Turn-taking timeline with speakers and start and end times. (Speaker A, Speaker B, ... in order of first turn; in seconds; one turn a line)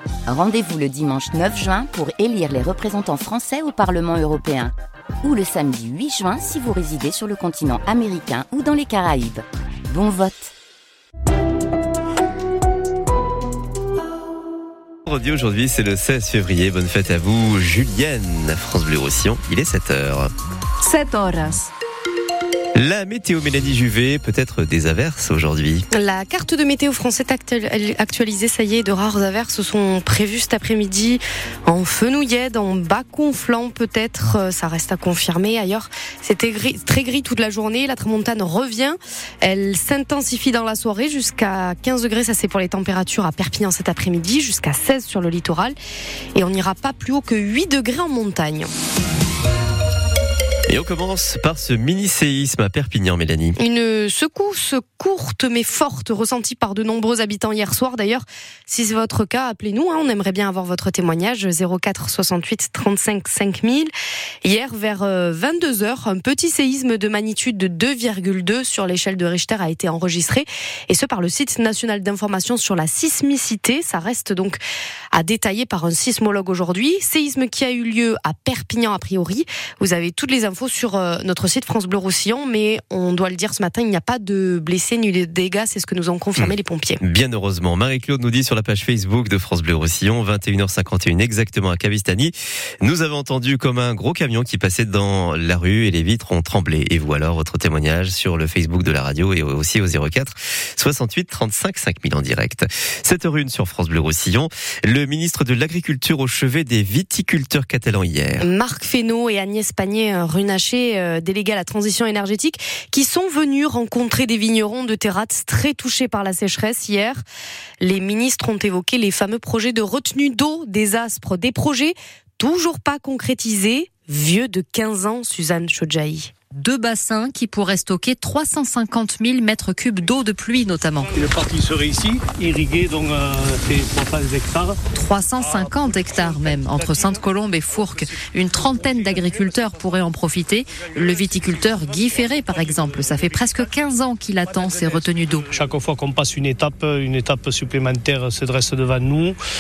Speaker A: 0.3-10.5
Speaker B: 15.1-20.3
Speaker C: 21.1-21.5
Speaker B: 22.8-25.8
Speaker D: 25.9-45.8
Speaker D: 46.4-48.7
Speaker B: 50.7-53.6
Speaker D: 53.6-63.9
Speaker D: 64.4-74.6
Speaker D: 75.1-87.0
Speaker B: 86.4-108.5
Speaker D: 108.4-117.2
Speaker D: 117.8-126.3
Speaker C: 126.6-131.1
Speaker E: 131.1-134.8
Speaker C: 134.9-145.5
Speaker E: 145.5-149.4